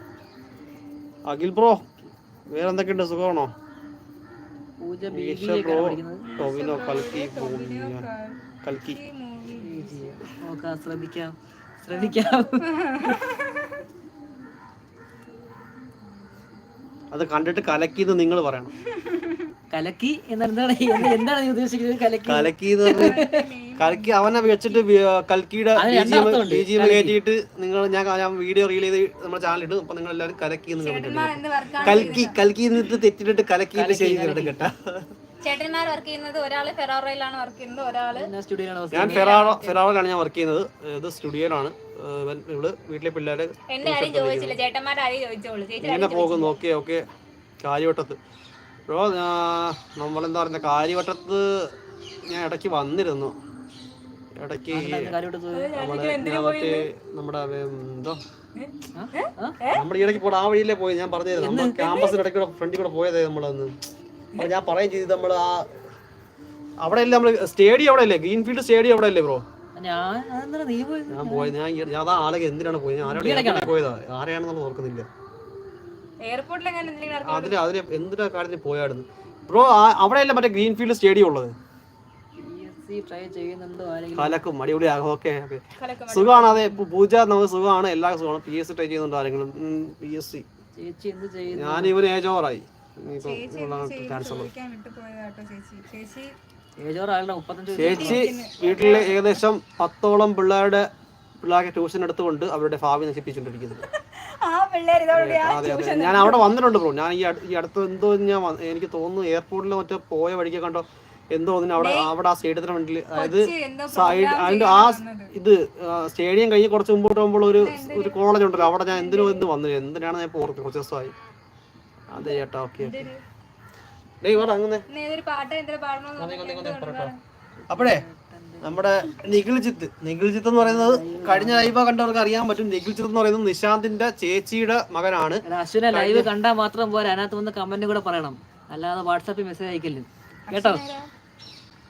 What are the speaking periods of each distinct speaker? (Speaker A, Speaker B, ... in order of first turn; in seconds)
Speaker A: 1.3-1.8, 2.5-3.5, 5.1-8.1, 8.6-9.0, 17.1-18.7, 22.3-23.2, 23.8-35.1, 38.9-44.6, 45.8-47.0, 47.6-48.2, 48.9-51.5, 52.3-53.4, 54.4-55.1, 55.8-58.2, 59.7-63.8, 64.4-65.7, 66.8-69.4, 71.1-75.1, 77.2-81.5, 84.2-90.5, 91.5-94.5, 97.7-100.9, 101.4-103.8, 105.1-121.2, 122.1-123.1, 124.2-124.9, 126.2-127.1, 127.7-128.0, 128.6-136.3
Speaker B: 4.8-6.2, 9.5-13.1, 19.7-23.4, 25.8-27.2, 31.8-32.3, 33.7-34.6, 38.1-39.4, 54.7-55.7, 59.0-59.6, 61.4-61.8, 69.8-71.5, 73.0-73.8, 82.4-84.4, 90.8-92.0, 96.8-98.3, 127.7-129.1, 130.6-131.8, 135.5-140.8
Speaker C: 6.2-10.2, 11.9-12.3, 12.8-13.8, 19.0-19.5, 22.9-24.9, 30.8-32.4, 35.4-38.3, 39.0-39.8, 43.7-46.6, 55.5-56.8, 58.6-59.8, 76.2-77.6, 85.8-86.8, 93.2-96.3, 97.8-99.3, 104.4-106.5, 111.8-112.1, 113.2-115.3, 117.5-118.2, 118.7-119.5, 122.8-123.2, 124.9-127.2, 140.5-141.1